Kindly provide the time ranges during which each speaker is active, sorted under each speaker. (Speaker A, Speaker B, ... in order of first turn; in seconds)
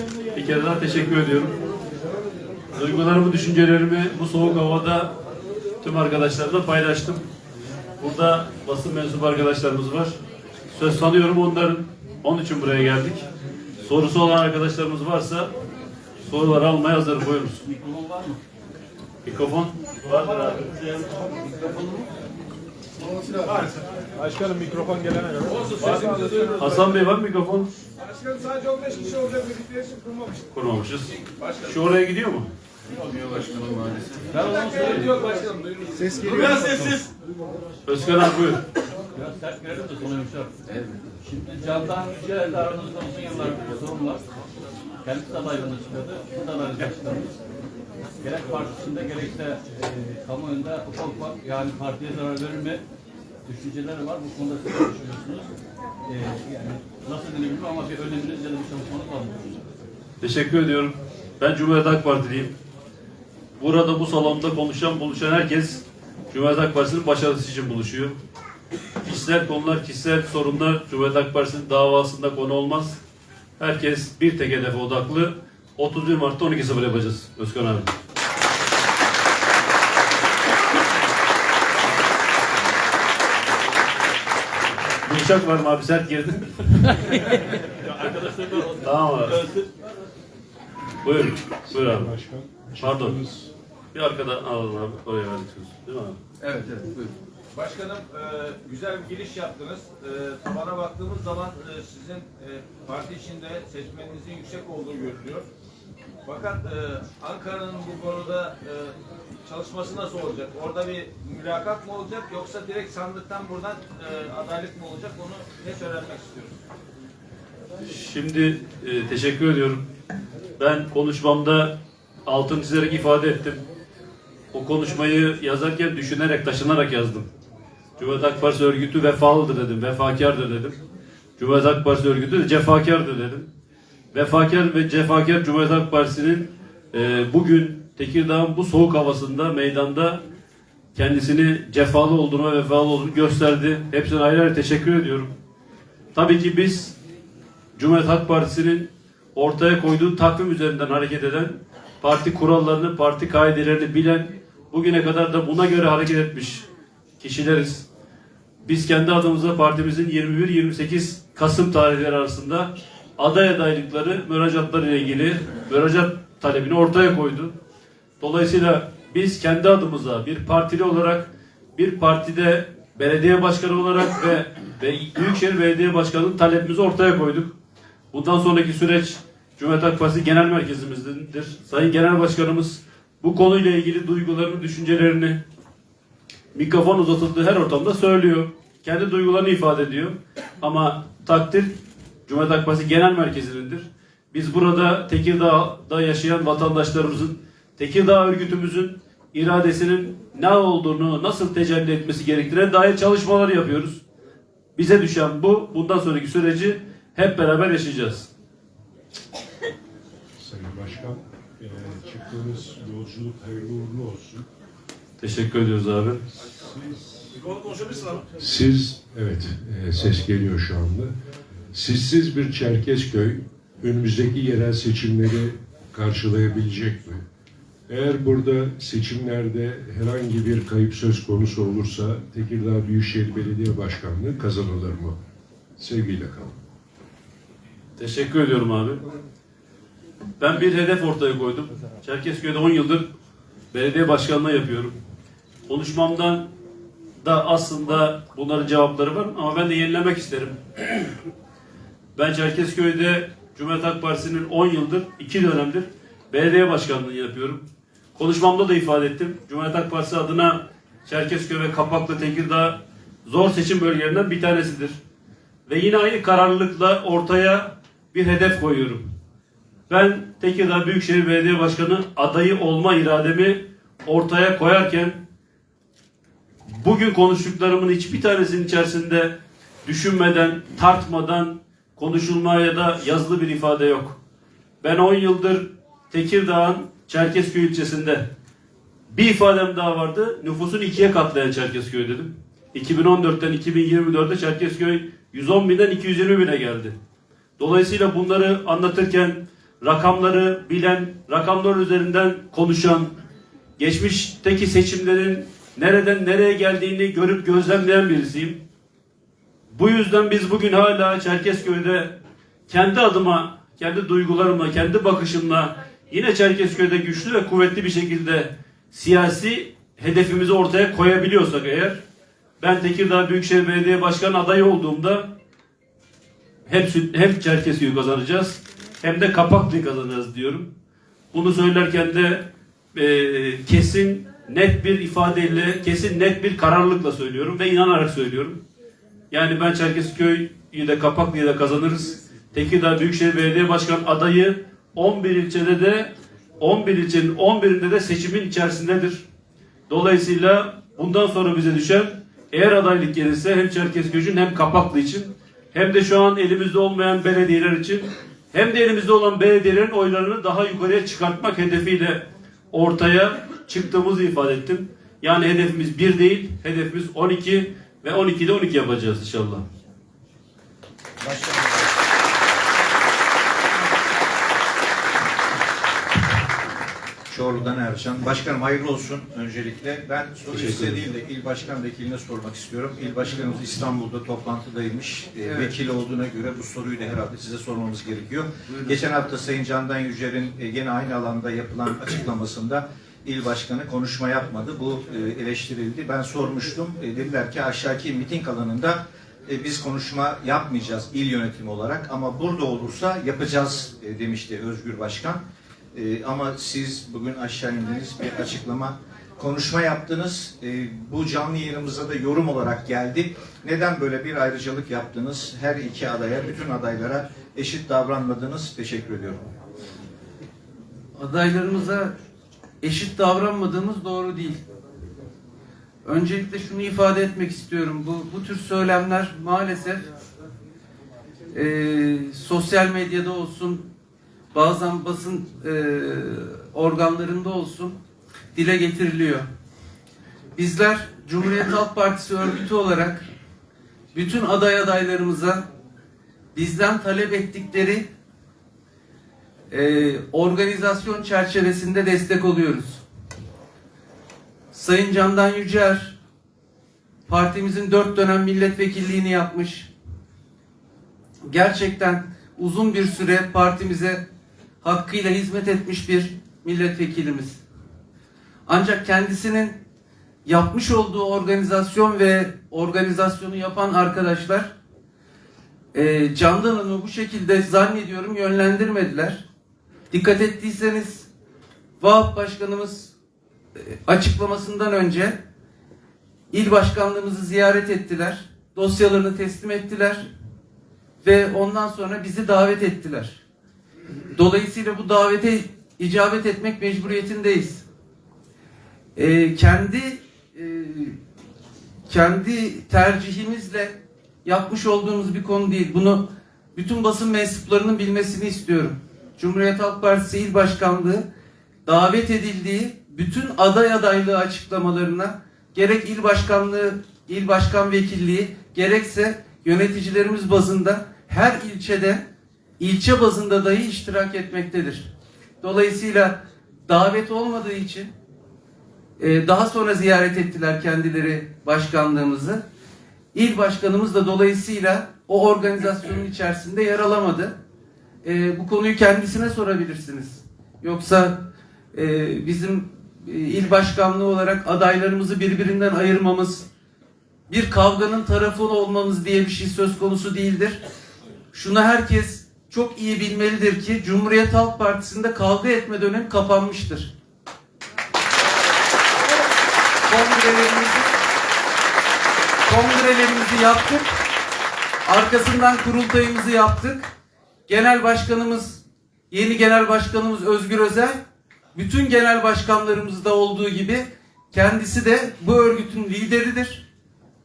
Speaker A: 0.3-1.6, 2.7-5.1, 5.8-7.2, 8.0-10.2, 10.7-13.3, 13.8-15.5, 16.2-17.6, 19.2-20.5, 26.6-27.7, 30.5-32.5, 37.9-38.6, 60.2-62.5, 63.6-68.2, 69.0-73.0, 73.6-77.9, 85.0-87.1, 88.8-89.4, 91.0-92.1, 92.8-93.2, 93.9-96.2, 117.8-119.8, 120.6-121.8, 122.3-123.6, 124.5-127.3, 128.0-130.8, 131.4-133.5, 134.1-140.2, 140.9-145.3, 146.1-147.0, 147.8-156.7, 157.2-157.9, 158.6-167.6, 168.2-177.5, 178.1-185.4, 186.5-191.7, 192.3-204.0, 204.8-208.3, 215.2-216.2, 238.0-239.0, 240.4-243.1, 243.7-244.9, 245.7-246.5, 247.2-251.2, 252.2-257.6, 258.2-265.0, 265.7-269.0, 269.9-275.2, 276.7-284.2, 284.8-288.2, 289.1-296.9, 297.6-303.1, 303.8-308.6, 309.7-312.1, 312.7-322.0, 322.6-325.3, 326.7-330.7, 331.3-338.6, 339.3-349.2, 349.9-369.6, 380.5-380.9
Speaker B: 17.7-18.4, 20.6-22.1, 34.3-35.3, 39.1-40.6, 41.2-44.2, 45.0-47.4, 48.2-52.8, 53.5-55.5, 56.1-59.6, 87.8-89.7
Speaker C: 25.5-26.6, 33.4-33.9, 35.0-37.0, 97.5-105.5, 106.2-108.9, 109.5-116.6
Speaker D: 91.7-93.5, 210.4-214.5, 216.4-221.1, 221.7-227.2, 227.9-235.2, 235.8-236.6
Speaker E: 371.2-371.7, 377.3-405.4, 405.9-419.5
Speaker F: 421.2-422.2, 422.8-424.6, 426.0-430.1, 431.5-433.9, 434.5-438.0, 438.5-439.5, 440.6-443.3, 444.1-445.7, 446.5-448.1, 449.7-453.0, 454.7-456.2, 457.3-459.9, 461.4-464.2, 464.8-467.6, 468.7-469.8, 470.4-474.7, 475.9-479.5, 480.1-481.3, 482.0-483.1, 483.8-485.4, 486.5-490.3, 491.2-493.4, 494.3-497.9, 499.1-501.2, 502.1-511.3, 511.9-522.2, 522.8-525.1, 525.6-528.1, 529.2-532.6, 533.3-537.6, 538.2-546.7, 547.5-550.8, 551.5-557.1, 560.1-561.2, 562.7-564.2, 565.0-567.1, 567.7-571.2, 571.7-576.9